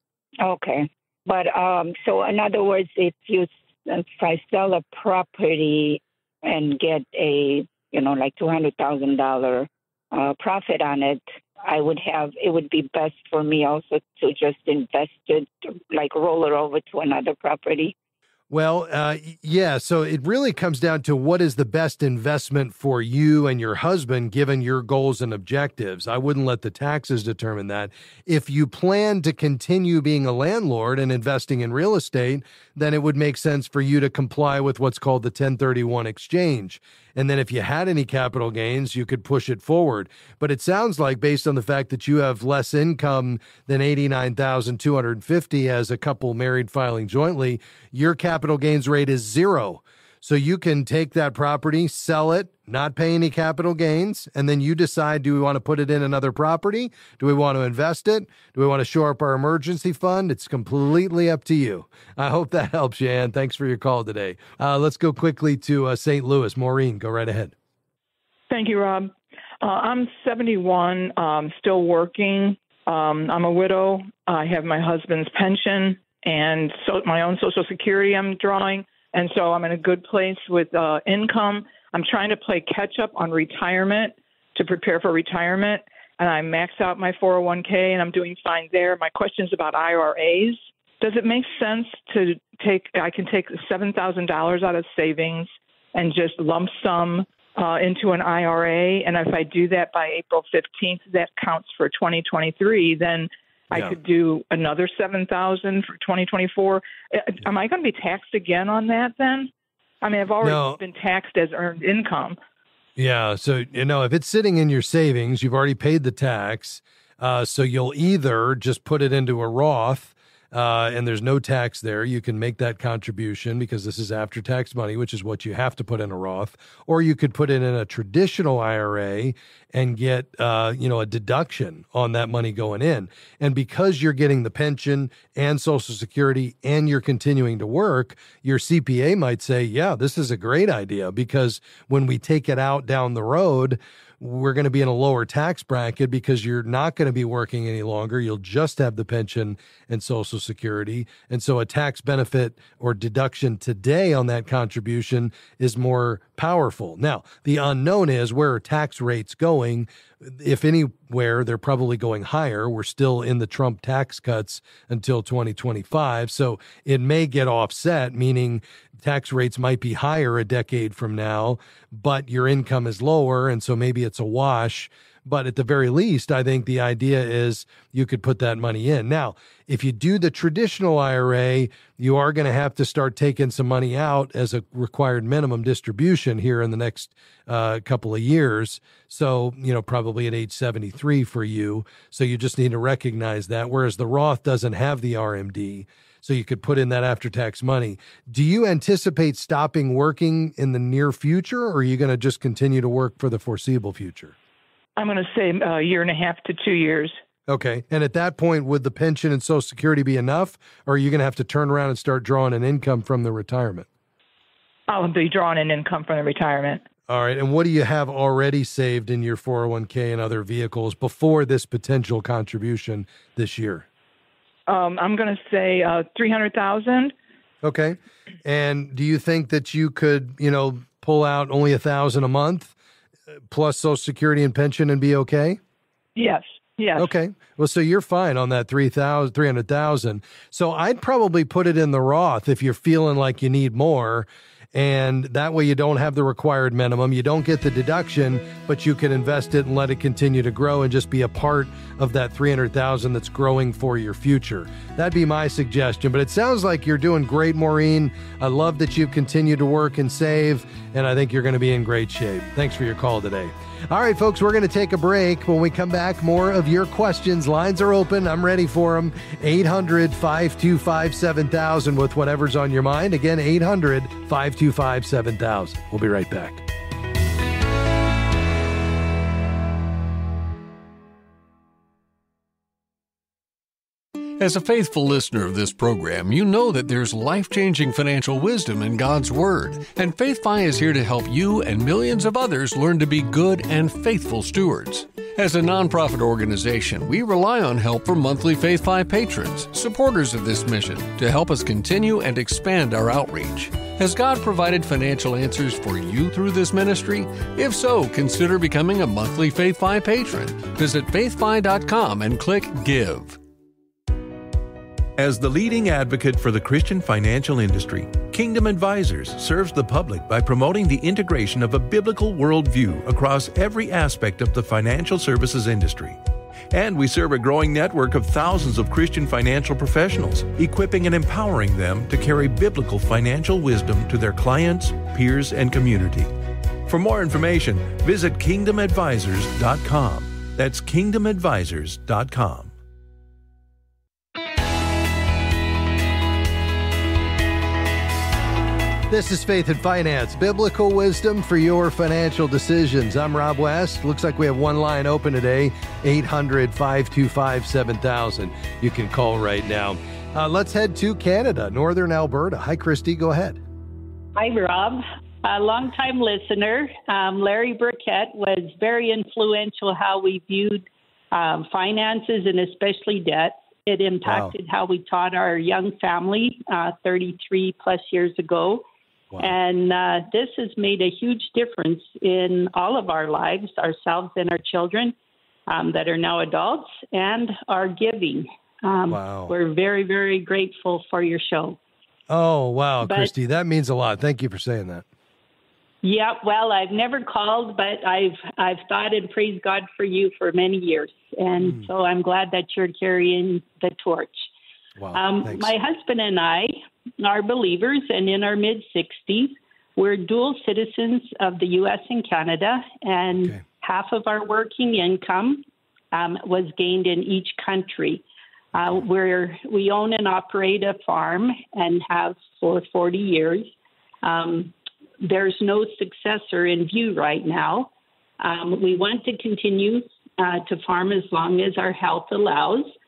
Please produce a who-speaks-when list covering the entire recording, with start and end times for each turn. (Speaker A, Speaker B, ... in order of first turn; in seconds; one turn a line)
Speaker A: 0.4-17.9
Speaker B: 18.5-67.5
Speaker C: 68.5-109.5
Speaker C: 110.0-112.4
Speaker B: 110.4-110.8
Speaker B: 113.0-204.3
Speaker C: 205.0-207.2
Speaker B: 207.5-213.9
Speaker C: 214.9-216.8
Speaker B: 217.1-223.8
Speaker C: 224.7-227.1
Speaker B: 227.6-232.7
Speaker B: 233.5-235.6
Speaker C: 236.2-237.1
Speaker B: 237.0-276.6
Speaker D: 284.4-313.4
Speaker E: 315.2-326.2
Speaker E: 326.7-336.3
Speaker E: 336.9-342.7
Speaker B: 349.1-363.6
Speaker F: 364.3-378.9
Speaker B: 374.2-374.5
Speaker F: 379.4-385.1
Speaker F: 385.7-391.8
Speaker B: 389.1-389.5
Speaker B: 392.3-395.0
Speaker F: 393.0-393.3
Speaker F: 396.0-404.5
Speaker B: 405.0-405.7
Speaker F: 405.1-418.2
Speaker F: 418.7-432.9